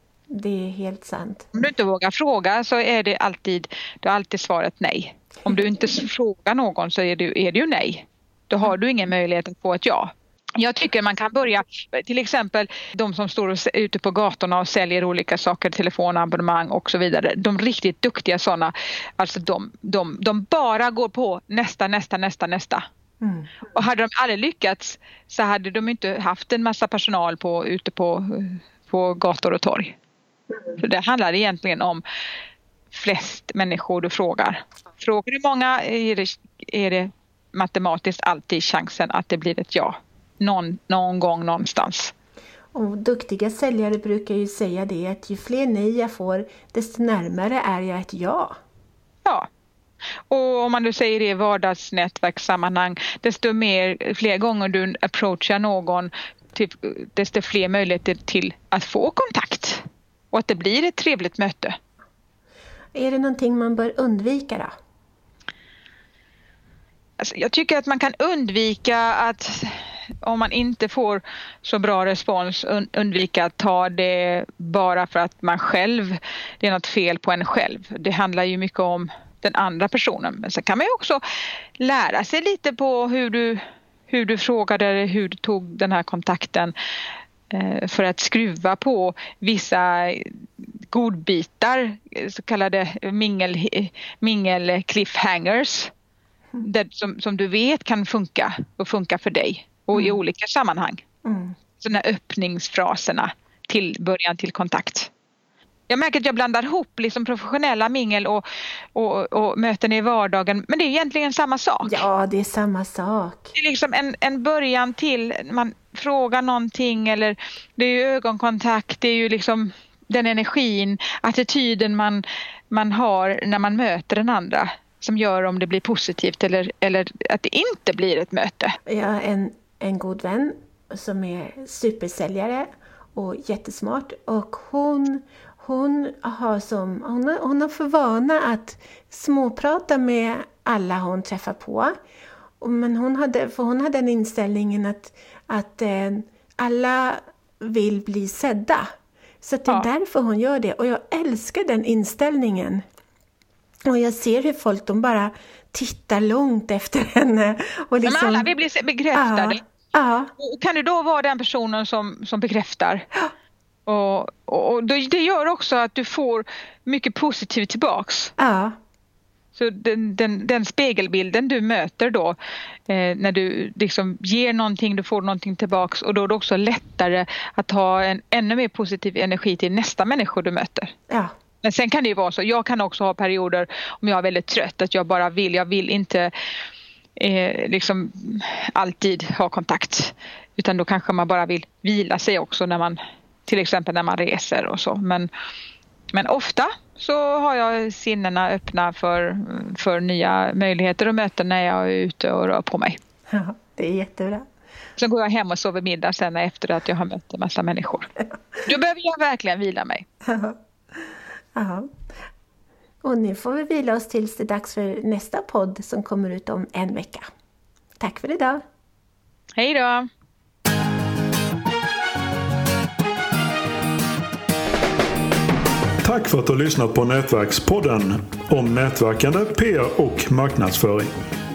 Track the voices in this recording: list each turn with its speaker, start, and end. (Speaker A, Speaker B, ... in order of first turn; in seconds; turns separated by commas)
Speaker A: 0.3-1.5, Speaker B: 1.5-22.8, Speaker A: 23.2-23.5, Speaker B: 23.7-29.9, Speaker B: 30.8-32.0, Speaker B: 32.9-42.1, Speaker A: 42.7-48.6, Speaker B: 50.3-61.8, Speaker A: 63.0-64.7, Speaker B: 67.2-69.7, Speaker B: 70.2-81.2, Speaker B: 81.8-86.7, Speaker B: 87.5-90.3, Speaker B: 90.9-95.9, Speaker B: 96.6-101.0, Speaker A: 101.2-101.5, Speaker B: 101.8-105.1, Speaker B: 105.9-108.4, Speaker B: 109.0-112.0, Speaker A: 111.8-113.5, Speaker B: 113.5-128.8, Speaker A: 128.9-141.9, Speaker A: 142.6-148.9, Speaker A: 149.4-152.8, Speaker A: 153.9-158.5, Speaker B: 158.0-159.6, Speaker A: 159.1-160.3, Speaker B: 160.4-163.1, Speaker B: 163.9-168.3, Speaker A: 168.4-168.8, Speaker B: 169.6-172.4, Speaker B: 172.9-180.9, Speaker B: 181.6-186.3, Speaker B: 187.2-195.3, Speaker B: 196.1-203.0, Speaker A: 203.3-204.4, Speaker B: 205.0-208.1, Speaker B: 208.6-210.1, Speaker A: 210.3-210.6, Speaker A: 211.6-211.9, Speaker A: 213.0-217.3, Speaker A: 218.0-218.6, Speaker B: 219.6-220.1, Speaker C: 226.0-231.1